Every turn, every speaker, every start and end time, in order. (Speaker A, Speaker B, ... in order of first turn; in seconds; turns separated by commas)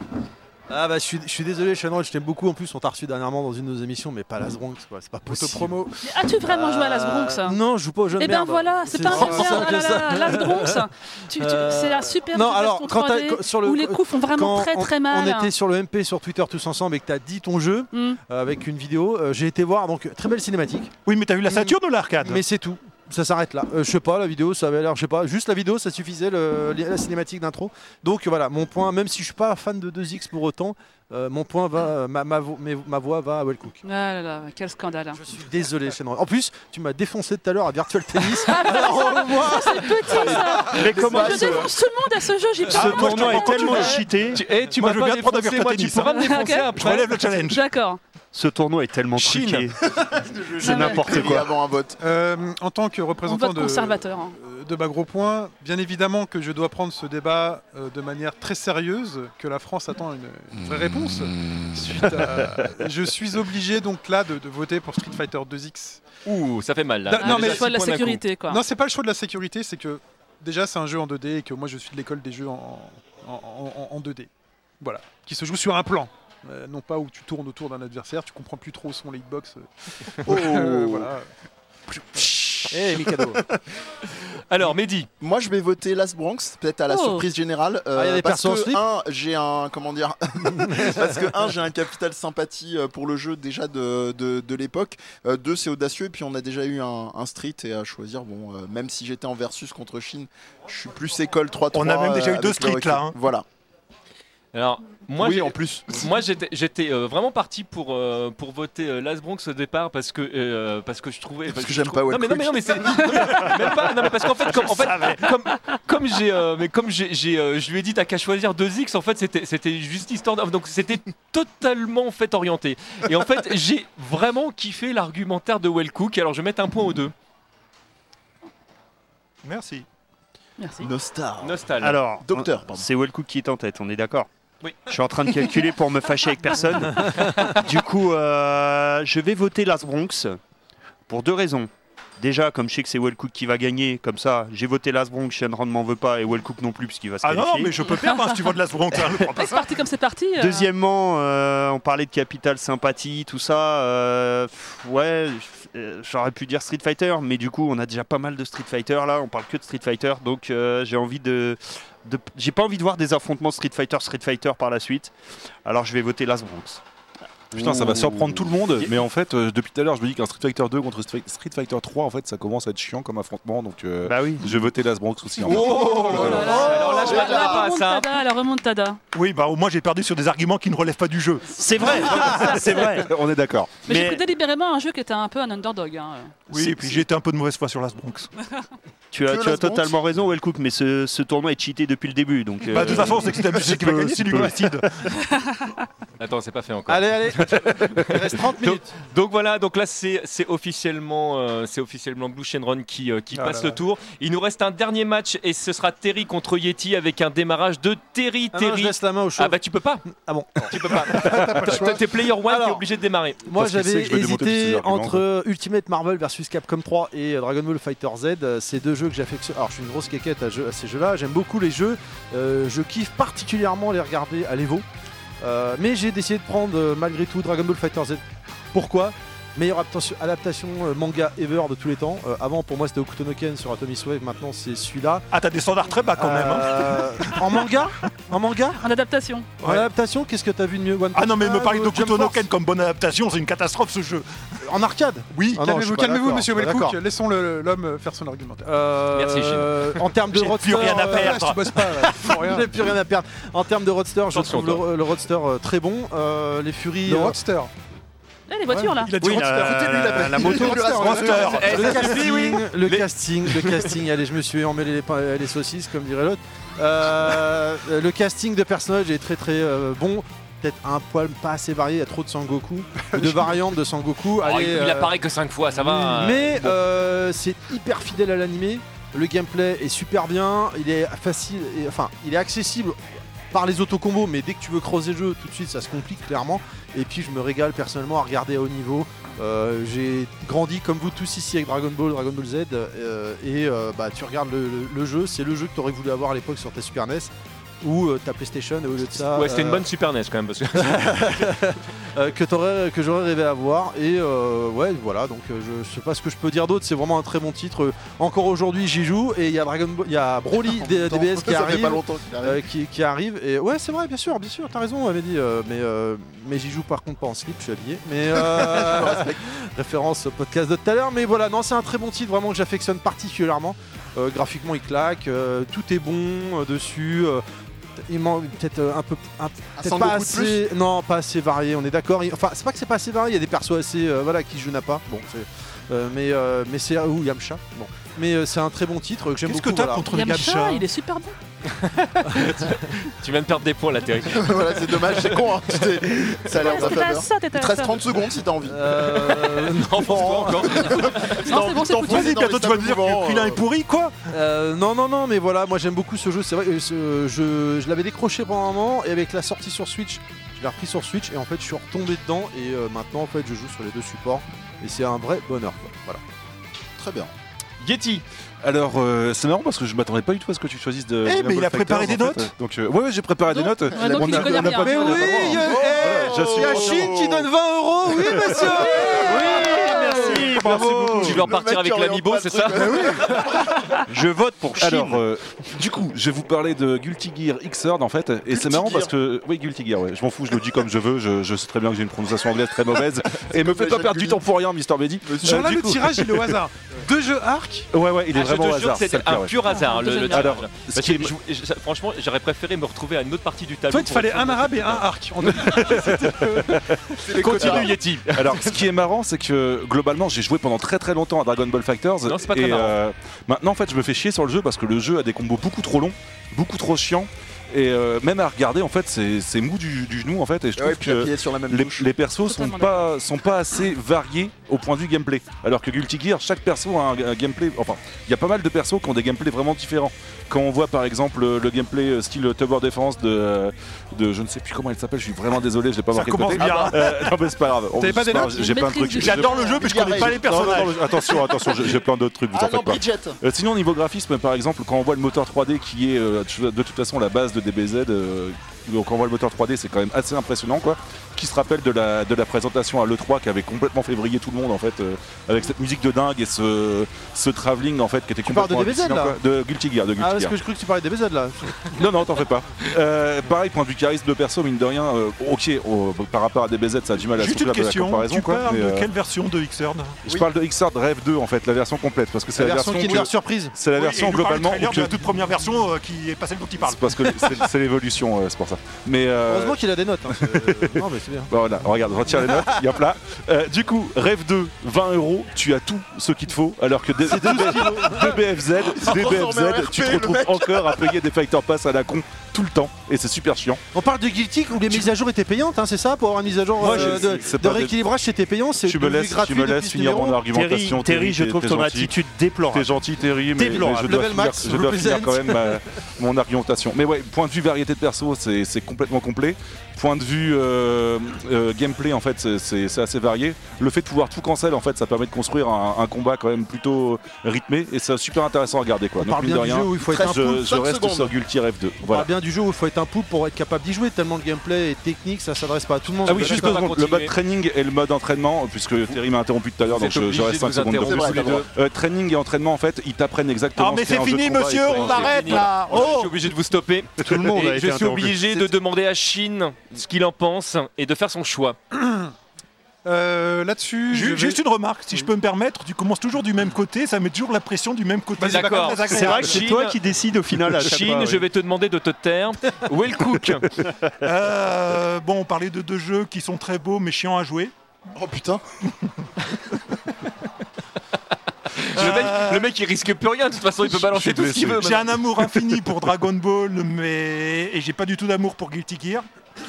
Speaker A: 0.7-5.8, Speaker B: 5.3-6.0, Speaker C: 6.0-7.6, Speaker A: 6.4-20.9, Speaker C: 8.2-15.5, Speaker B: 9.0-9.7, Speaker C: 17.9-18.2, Speaker D: 21.1-22.4, Speaker A: 21.5-33.8, Speaker C: 33.8-35.2, Speaker A: 35.1-40.7, Speaker C: 38.4-44.0, Speaker E: 40.6-41.7, Speaker F: 40.8-41.7, Speaker E: 42.7-44.4, Speaker D: 42.7-46.2, Speaker G: 44.3-47.3, Speaker C: 46.0-48.0, Speaker D: 46.7-47.6, Speaker E: 48.3-49.8, Speaker G: 49.2-49.7, Speaker F: 50.0-52.0, Speaker C: 50.6-51.1, Speaker E: 50.6-51.5, Speaker B: 52.0-66.0, Speaker C: 53.2-54.4, Speaker G: 66.2-67.8, Speaker B: 67.1-81.3, Speaker C: 67.2-68.6, Speaker F: 80.2-81.1, Speaker F: 82.0-83.4, Speaker A: 82.7-83.4, Speaker G: 84.5-85.1, Speaker F: 85.2-103.5, Speaker C: 86.9-87.3, Speaker A: 88.0-88.8, Speaker A: 90.5-91.2, Speaker D: 101.7-103.2, Speaker G: 104.5-127.1, Speaker F: 105.2-106.1, Speaker F: 111.5-114.1, Speaker D: 114.5-115.3, Speaker D: 129.4-129.8, Speaker C: 130.6-130.9, Speaker F: 130.8-132.9, Speaker G: 131.4-132.0, Speaker E: 131.8-134.3, Speaker E: 134.9-140.4, Speaker G: 137.2-137.5, Speaker E: 141.1-147.8, Speaker D: 147.2-149.7, Speaker C: 149.4-150.7, Speaker E: 150.4-165.1, Speaker E: 165.7-166.8, Speaker E: 167.5-168.9, Speaker H: 167.5-176.5, Speaker E: 174.1-174.5, Speaker G: 175.4-178.1, Speaker F: 175.5-177.7, Speaker C: 175.8-179.0, Speaker D: 179.1-182.1, Speaker E: 181.5-183.2, Speaker C: 182.2-182.8, Speaker H: 182.9-183.8, Speaker E: 183.8-184.2, Speaker C: 183.9-186.4, Speaker D: 186.5-188.3, Speaker E: 189.1-194.5, Speaker F: 189.3-190.0, Speaker D: 192.7-194.9, Speaker C: 195.3-195.7, Speaker G: 196.2-210.1, Speaker A: 196.9-198.9, Speaker B: 203.3-203.8, Speaker A: 208.5-211.9, Speaker G: 210.7-213.4, Speaker B: 211.1-212.1, Speaker A: 212.5-212.8, Speaker A: 213.4-224.8, Speaker H: 213.5-215.2, Speaker A: 225.4-235.3, Speaker D: 235.3-237.4, Speaker A: 236.2-238.8, Speaker C: 238.8-239.5, Speaker A: 239.6-242.5, Speaker D: 241.2-244.3, Speaker A: 244.6-247.0, Speaker D: 245.3-245.6, Speaker B: 245.6-248.8, Speaker A: 248.6-251.6, Speaker G: 249.1-249.9, Speaker D: 250.3-251.7, Speaker B: 250.9-252.8, Speaker A: 252.1-257.4, Speaker G: 254.3-254.9, Speaker B: 257.1-257.7, Speaker C: 258.5-259.2, Speaker B: 258.7-261.1, Speaker E: 259.2-261.2, Speaker F: 259.7-261.9, Speaker D: 260.9-262.2, Speaker G: 261.4-263.9, Speaker A: 261.6-275.1, Speaker B: 273.2-273.6, Speaker G: 274.4-276.7, Speaker A: 275.8-299.9, Speaker G: 299.2-301.5, Speaker A: 300.7-327.4, Speaker F: 310.7-312.6, Speaker F: 318.4-319.4, Speaker A: 328.0-340.1, Speaker F: 329.8-330.6, Speaker D: 339.5-340.9, Speaker C: 340.1-341.4, Speaker G: 341.7-345.4, Speaker F: 344.3-349.4, Speaker C: 346.5-348.0, Speaker A: 348.6-351.0, Speaker G: 349.0-351.5, Speaker F: 350.9-353.6, Speaker C: 351.4-352.4, Speaker D: 352.0-354.1, Speaker A: 354.3-366.2, Speaker F: 367.0-367.3, Speaker G: 367.8-368.2, Speaker H: 368.6-377.2, Speaker D: 371.2-372.5, Speaker C: 373.5-375.7, Speaker F: 373.9-377.5, Speaker A: 374.5-380.7, Speaker F: 378.1-384.0, Speaker E: 379.2-381.5, Speaker G: 381.1-383.3, Speaker E: 384.1-385.2, Speaker H: 384.8-396.5, Speaker F: 388.5-389.1, Speaker F: 393.3-394.4, Speaker F: 395.2-395.7, Speaker B: 395.4-397.9, Speaker H: 397.9-401.3, Speaker G: 398.3-405.0, Speaker C: 399.7-400.6, Speaker B: 403.9-406.9, Speaker H: 405.7-406.8, Speaker F: 407.2-408.0, Speaker G: 407.3-408.8, Speaker H: 407.5-460.6, Speaker G: 412.2-413.0, Speaker F: 420.8-422.1, Speaker C: 422.4-423.1, Speaker D: 436.1-437.3, Speaker F: 436.6-437.0, Speaker B: 438.0-438.8, Speaker C: 438.4-439.8, Speaker D: 439.2-441.4, Speaker F: 439.8-440.8, Speaker F: 442.5-443.4, Speaker A: 458.5-459.4, Speaker A: 460.2-462.0, Speaker H: 461.9-469.1, Speaker D: 467.4-470.2, Speaker H: 470.2-475.3, Speaker A: 472.6-473.7, Speaker D: 473.9-477.0, Speaker H: 476.8-479.8, Speaker A: 479.5-481.5, Speaker H: 480.4-493.8, Speaker A: 482.1-482.8, Speaker A: 487.2-488.4, Speaker F: 487.5-488.3, Speaker F: 488.9-491.2, Speaker A: 493.9-500.4, Speaker H: 496.8-498.0, Speaker H: 498.8-502.1, Speaker E: 500.5-502.9, Speaker H: 502.7-522.3, Speaker E: 503.6-504.1, Speaker A: 503.8-505.8, Speaker A: 519.2-520.5, Speaker F: 520.0-521.3, Speaker A: 522.0-526.8, Speaker H: 526.2-535.6, Speaker G: 526.3-527.3, Speaker G: 529.9-531.7, Speaker F: 531.0-531.6, Speaker D: 533.8-536.4, Speaker G: 534.9-541.8, Speaker E: 537.2-538.7, Speaker B: 541.9-542.3, Speaker B: 543.0-545.3, Speaker D: 544.1-549.6, Speaker B: 548.4-549.4, Speaker G: 548.4-550.0, Speaker E: 549.1-551.5, Speaker G: 550.6-553.7, Speaker D: 554.2-557.7, Speaker F: 558.1-558.6, Speaker G: 561.8-565.2, Speaker D: 562.0-562.7, Speaker H: 562.0-562.3, Speaker H: 563.9-565.1, Speaker D: 564.8-569.3